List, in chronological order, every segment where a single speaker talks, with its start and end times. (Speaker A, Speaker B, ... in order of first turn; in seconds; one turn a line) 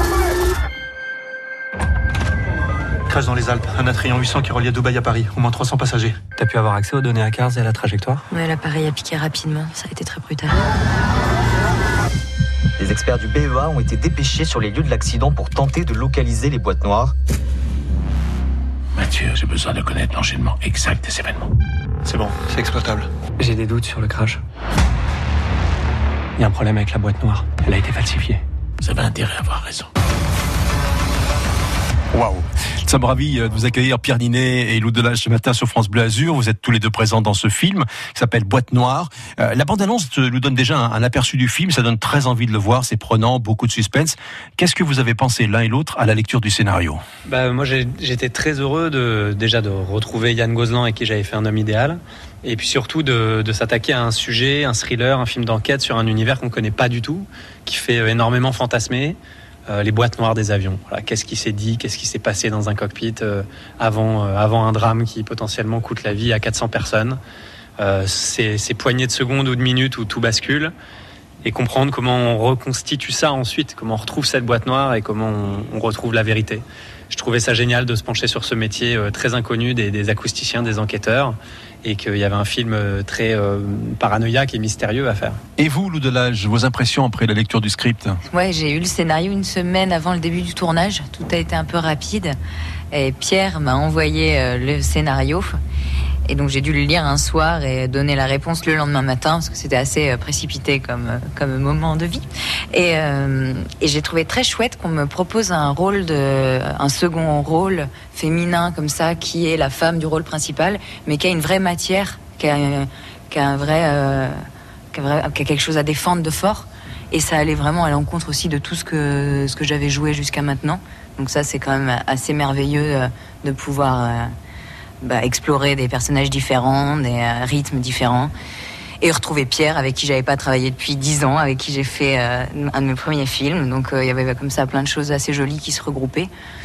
Speaker A: 3.1-8.1
Speaker B: 6.3-8.2
Speaker C: 8.3-10.6
Speaker D: 12.8-17.1
Speaker E: 18.9-21.5
Speaker A: 22.1-23.1
Speaker B: 23.4-24.4
Speaker B: 26.4-28.4
Speaker E: 28.8-29.9
Speaker F: 32.1-47.0
Speaker B: 47.3-59.2
Speaker B: 59.7-67.2
Speaker B: 67.8-70.7
Speaker B: 71.4-85.4
Speaker F: 85.6-88.2
Speaker C: 88.3-92.3
Speaker C: 92.9-95.5
Speaker C: 96.3-114.4
Speaker C: 114.9-124.3
Speaker C: 125.0-128.3
Speaker C: 129.0-136.3